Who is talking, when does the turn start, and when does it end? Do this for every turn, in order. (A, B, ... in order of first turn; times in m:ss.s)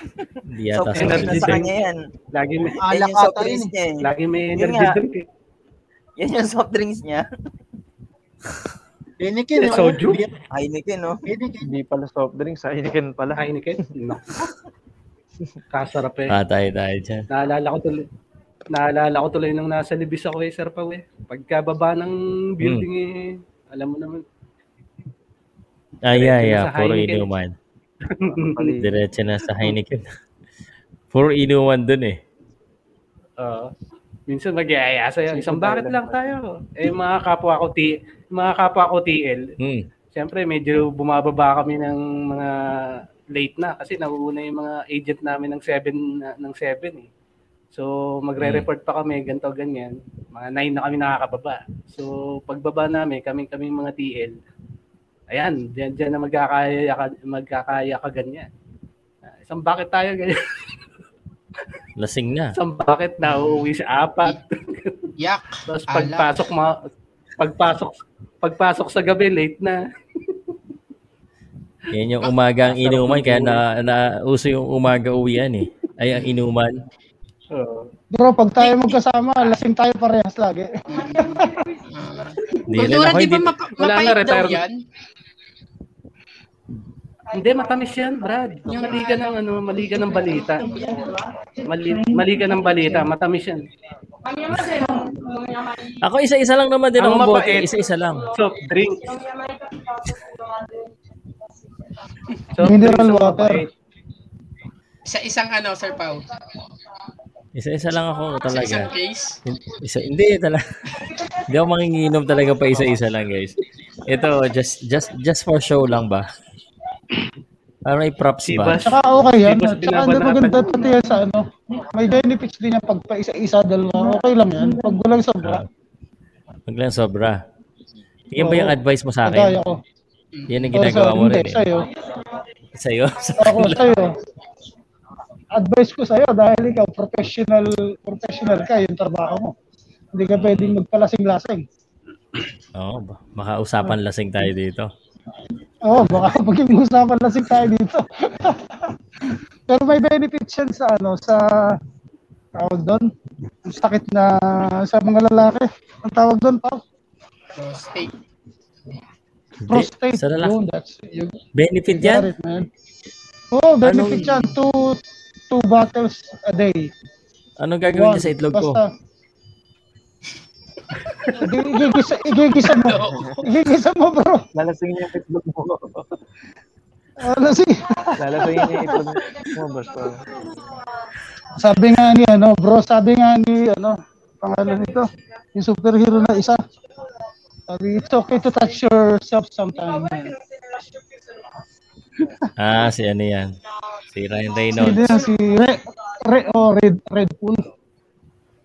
0:00.2-0:02.1 A
0:00.5-0:01.7 B
0:00.9-0:01.7 C
0:02.3-0:02.8 C
0:02.8-0:03.7 D
0:02.9-0:05.0 A
0:04.0-0:05.3 C
0:06.2-0:07.3 A
0:09.2-0:10.3 D
0:09.6-0:10.2 C
0:10.5-0:11.2 A
0:11.3-0:11.7 D
0:11.6-0:13.5 E
0:13.4-0:14.4 C
0:15.7-0:16.3 C
0:16.3-0:17.2 B
0:17.3-0:18.1 C
0:18.7-0:24.2 C
0:22.6-0:22.9 B
0:26.0-0:27.5 B
0:26.1-0:27.3 C
0:28.0-0:28.8 C
0:28.3-0:28.9 E
0:28.8-0:30.1 B
0:31.1-0:32.2 B
0:33.4-0:33.7 C
0:34.3-0:39.5 C
0:35.3-0:36.3 E
0:40.2-0:47.1 C
0:47.7-0:54.4 C
0:48.4-0:48.7 B
0:55.3-0:58.5 C
0:59.3-1:00.4 C
1:02.0-1:02.6 B
1:02.6-1:05.0 C
1:05.2-1:06.4 F
1:05.7-1:06.8 C
1:07.4-1:10.4 C
1:11.9-1:16.8 B
1:12.7-1:13.6 C
1:17.5-1:17.9 C
1:18.1-1:21.7 G
1:18.6-1:19.6 F
1:20.9-1:24.8 F
1:22.7-1:23.5 B
1:23.8-1:24.6 C
1:27.3-1:33.6 C
1:28.7-1:29.4 F
1:30.0-1:31.0 F
1:34.5-1:34.9 B
1:36.0-1:38.3 B
1:37.0-1:37.7 C
1:38.3-1:39.2 C
1:42.6-1:43.7 C
1:42.6-1:43.6 G
1:45.1-1:46.2 F
1:47.6-1:48.9 B
1:48.5-1:49.4 F
1:49.5-1:56.3 B
1:57.9-1:58.9 B
1:58.4-2:01.0 C
1:58.8-2:05.6 G
2:06.7-2:07.4 B
2:08.3-2:09.6 B
2:08.4-2:09.8 G
2:10.5-2:11.6 B
2:10.7-2:11.9 G
2:12.8-2:14.0 B
2:13.4-2:14.2 G
2:15.6-2:19.5 G
2:20.1-2:21.6 G
2:20.3-2:20.8 B
2:22.8-2:24.9 B
2:25.9-2:28.8 G
2:29.7-2:31.8 G
2:32.6-2:33.1 G
2:33.7-2:36.8 G
2:37.6-2:38.2 F
2:39.6-2:40.6 B
2:39.7-2:41.4 G
2:41.6-2:42.3 B
2:41.9-2:42.7 G
2:43.5-2:45.0 G
2:43.8-2:44.4 B
2:45.5-2:46.9 G
2:47.6-2:48.8 B
2:47.9-2:48.9 G
2:51.3-2:54.4 G
2:52.7-2:53.4 F
2:53.1-2:53.4 E
2:54.5-2:56.1 E
2:57.2-2:59.0 G
2:58.2-3:00.2 E
3:01.6-3:06.6 G
3:07.7-3:10.4 G
3:12.6-3:13.6 B
3:14.1-3:15.2 B
3:14.8-3:17.6 G